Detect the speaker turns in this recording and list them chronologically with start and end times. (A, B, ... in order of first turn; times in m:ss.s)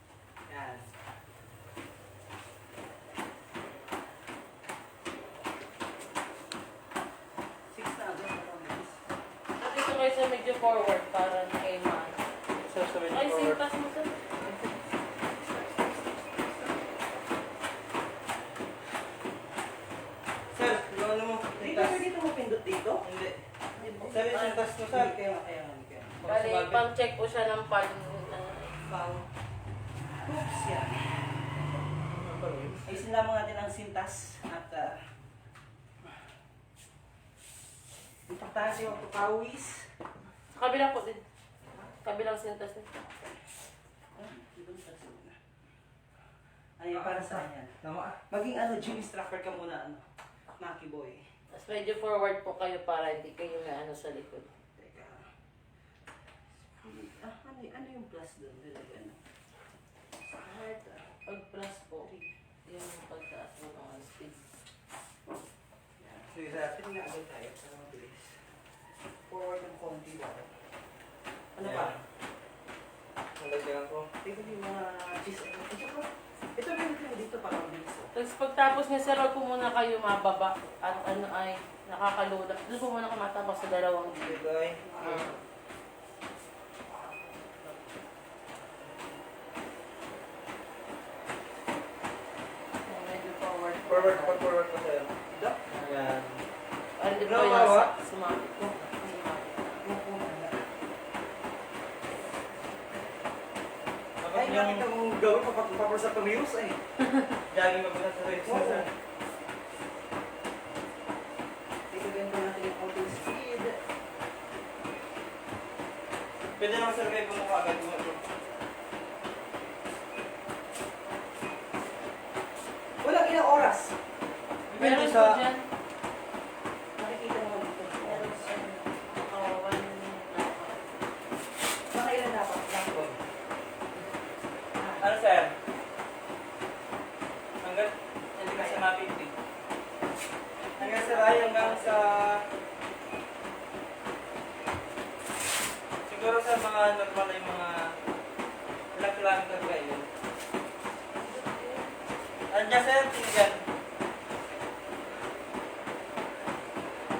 0:00.5-0:00.9 A
0:07.7-0:09.0 A
0:09.6-0:12.2 B
0:12.6-0:13.6 C
0:13.1-0:14.1 B
0:15.4-0:15.9 A
0:20.5-0:22.1 C
0:21.6-0:23.0 A
0:23.0-0:23.4 C
0:23.8-0:26.2 A
0:23.8-0:24.7 B
0:24.1-0:25.2 C
0:26.2-0:26.8 C
0:26.2-0:28.8 B
0:28.9-0:29.2 C
0:30.1-0:32.0 A
0:32.1-0:32.9 C
0:32.8-0:35.0 A
0:38.3-0:39.9 A
0:40.5-0:41.2 B
0:42.0-0:42.9 B
0:44.2-0:45.4 A
0:46.8-0:47.8 A
0:47.0-0:48.2 C
0:48.3-0:50.0 A
0:50.6-0:51.2 A
0:51.5-0:54.5 B
0:54.8-0:55.3 A
0:56.6-0:59.2 A
1:00.4-1:01.1 A
1:01.3-1:02.1 B
1:02.0-1:02.3 A
1:02.7-1:04.4 B
1:06.0-1:08.4 A
1:09.3-1:10.5 A
1:11.6-1:12.0 A
1:11.6-1:12.0 C
1:13.4-1:14.1 C
1:14.2-1:18.1 A
1:18.1-1:24.3 B
1:24.2-1:24.9 C
1:24.8-1:25.4 A
1:25.0-1:25.4 B
1:27.0-1:27.9 A
1:32.8-1:34.4 B
1:33.9-1:35.1 C
1:35.3-1:35.9 A
1:35.8-1:36.4 C
1:37.0-1:39.8 B
1:37.2-1:37.9 C
1:38.5-1:39.2 A
1:39.8-1:40.7 A
1:44.2-1:44.9 C
1:44.3-1:46.8 A
1:47.5-1:48.9 C
1:48.4-1:48.9 A
1:51.9-1:53.8 A
1:56.6-1:58.2 C
2:03.0-2:04.0 A
2:04.7-2:05.6 B
2:04.7-2:05.4 C
2:07.0-2:08.5 A
2:08.0-2:10.9 B
2:11.9-2:13.2 A
2:14.8-2:15.1 A
2:15.0-2:15.6 C
2:17.6-2:19.3 C
2:18.4-2:18.8 A
2:20.8-2:22.4 C
2:20.8-2:22.2 B
2:26.1-2:28.0 C
2:28.9-2:30.1 C
2:31.2-2:31.9 B
2:32.5-2:33.6 C